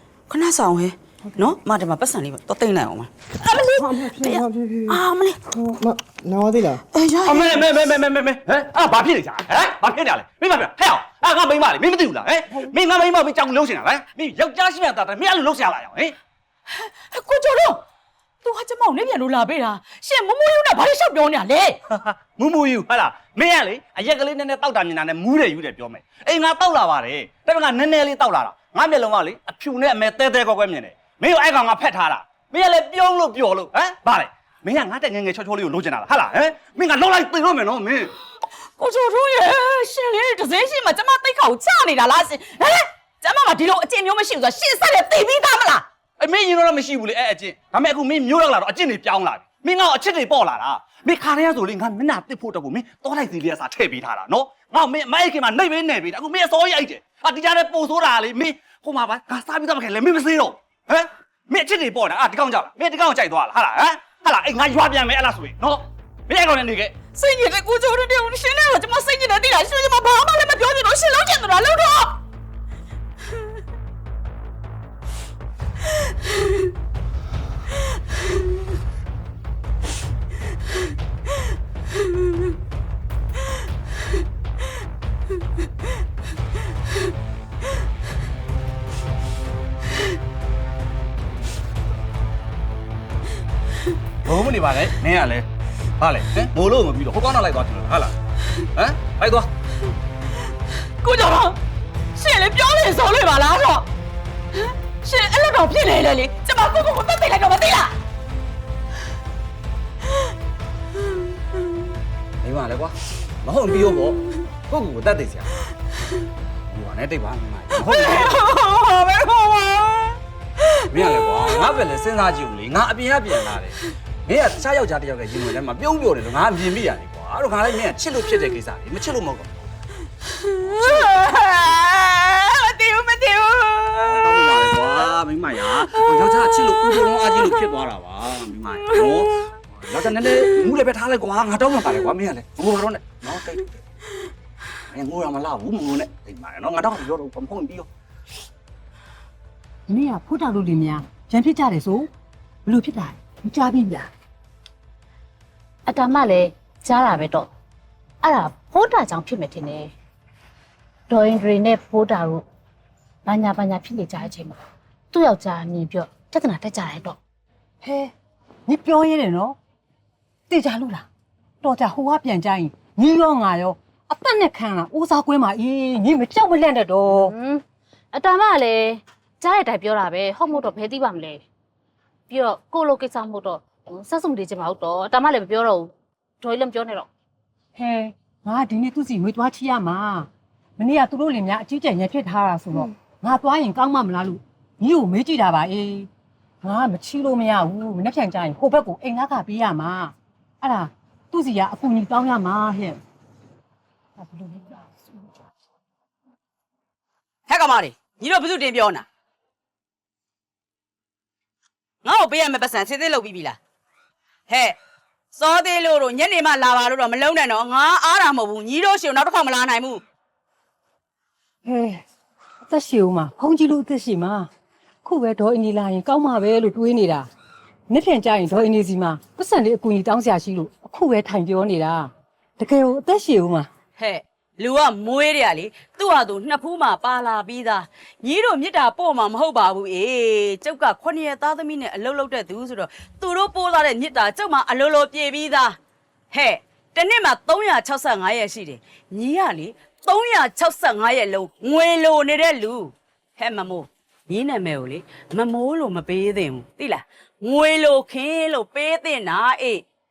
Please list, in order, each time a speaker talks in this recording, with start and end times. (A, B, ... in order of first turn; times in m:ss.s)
0:00.3-0:05.4 A
0:03.8-0:06.8 B
0:06.9-0:07.6 A
0:07.3-0:16.2 C
0:16.8-0:17.8 A
0:18.4-0:21.8 A
0:21.9-0:38.1 C
0:38.8-0:45.8 A
0:46.2-1:06.9 C
1:07.1-1:12.2 A
1:34.2-1:35.5 C
1:36.0-1:38.2 C
1:38.8-1:39.5 C
1:41.0-1:41.6 A
1:42.2-1:43.9 A
1:45.0-1:47.9 A
1:52.4-1:55.5 C
1:56.7-1:58.4 C
1:57.7-2:00.2 A
2:00.7-2:01.6 A
2:00.9-2:09.6 C
2:10.4-2:17.7 A
2:10.8-2:11.0 C
2:14.1-2:23.7 C
2:18.9-2:19.4 A
2:20.2-2:20.6 A
2:24.9-2:27.9 C
2:29.9-2:32.1 D
2:32.7-2:34.1 D
2:35.9-2:37.5 E
2:38.2-2:39.9 E
2:41.1-2:42.4 E
2:43.2-2:44.6 E
2:45.1-2:47.2 E
2:47.8-2:48.1 D
2:48.7-2:49.6 D
2:50.5-2:51.1 D
2:51.6-2:57.4 D
2:57.1-2:57.6 E
2:58.1-3:01.4 E
3:02.3-3:07.1 E
3:07.8-3:16.1 D
3:16.6-3:23.0 D
3:24.2-3:25.0 D
3:27.5-3:29.1 A
3:32.0-3:33.6 A
3:34.5-3:34.8 A
3:35.3-3:40.0 A
3:41.6-3:42.0 D
3:42.7-3:44.5 D
3:45.0-3:47.3 D
3:47.9-3:53.7 D
3:54.0-4:05.8 A
4:06.3-4:19.8 A